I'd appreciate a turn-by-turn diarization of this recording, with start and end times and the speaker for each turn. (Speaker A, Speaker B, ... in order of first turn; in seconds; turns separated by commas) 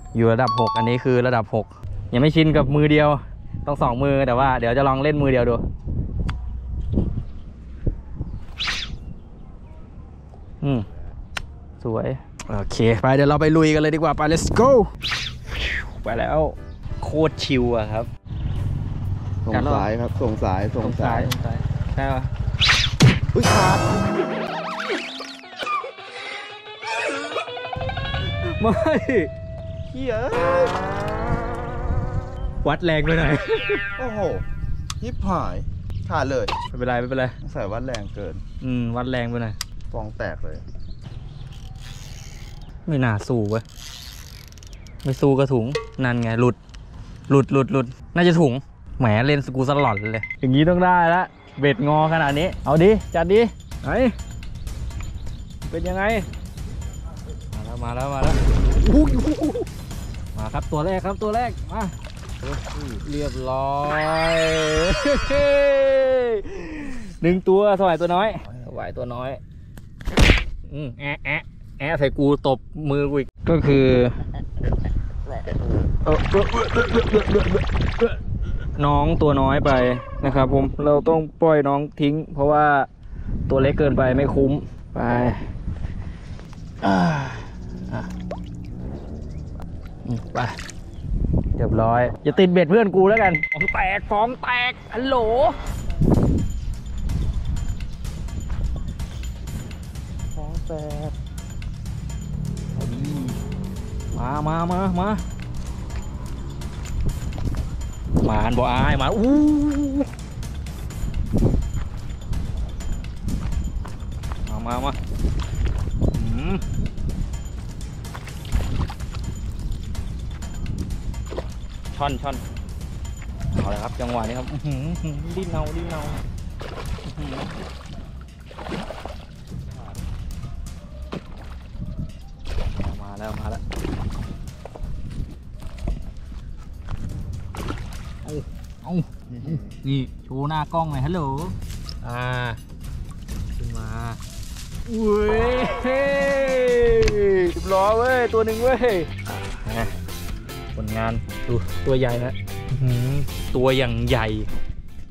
Speaker A: 0.1-5.6, Speaker A: 10.6-10.9, Speaker A: 11.8-14.9, Speaker A: 15.5-18.1, Speaker B: 19.4-21.3, Speaker A: 19.5-19.9, Speaker A: 20.8-22.3, Speaker B: 23.3-24.1, Speaker A: 28.4-29.3, Speaker B: 29.9-30.8, Speaker A: 32.6-33.9, Speaker B: 34.0-34.5, Speaker B: 35.0-36.5, Speaker A: 36.7-37.4, Speaker B: 37.4-38.4, Speaker A: 38.6-39.6, Speaker B: 39.9-40.6, Speaker A: 42.9-43.6, Speaker A: 45.0-46.6, Speaker A: 47.3-54.1, Speaker A: 55.6-56.3, Speaker A: 57.5-59.7, Speaker A: 60.4-61.9, Speaker A: 62.7-69.4, Speaker A: 70.7-74.2, Speaker A: 76.0-78.2, Speaker A: 78.8-82.9, Speaker A: 83.5-85.5, Speaker A: 86.8-88.1, Speaker A: 90.0-90.5, Speaker A: 91.6-95.6, Speaker B: 100.3-101.2, Speaker A: 102.8-103.4, Speaker A: 104.1-105.2, Speaker A: 108.2-110.1, Speaker A: 114.5-115.0, Speaker A: 116.1-116.6, Speaker A: 121.9-122.4, Speaker A: 123.5-126.2, Speaker A: 127.0-127.6, Speaker A: 132.8-133.6, Speaker A: 138.2-142.6, Speaker B: 139.3-139.8, Speaker A: 143.6-144.2, Speaker A: 144.9-149.9, Speaker A: 150.7-154.5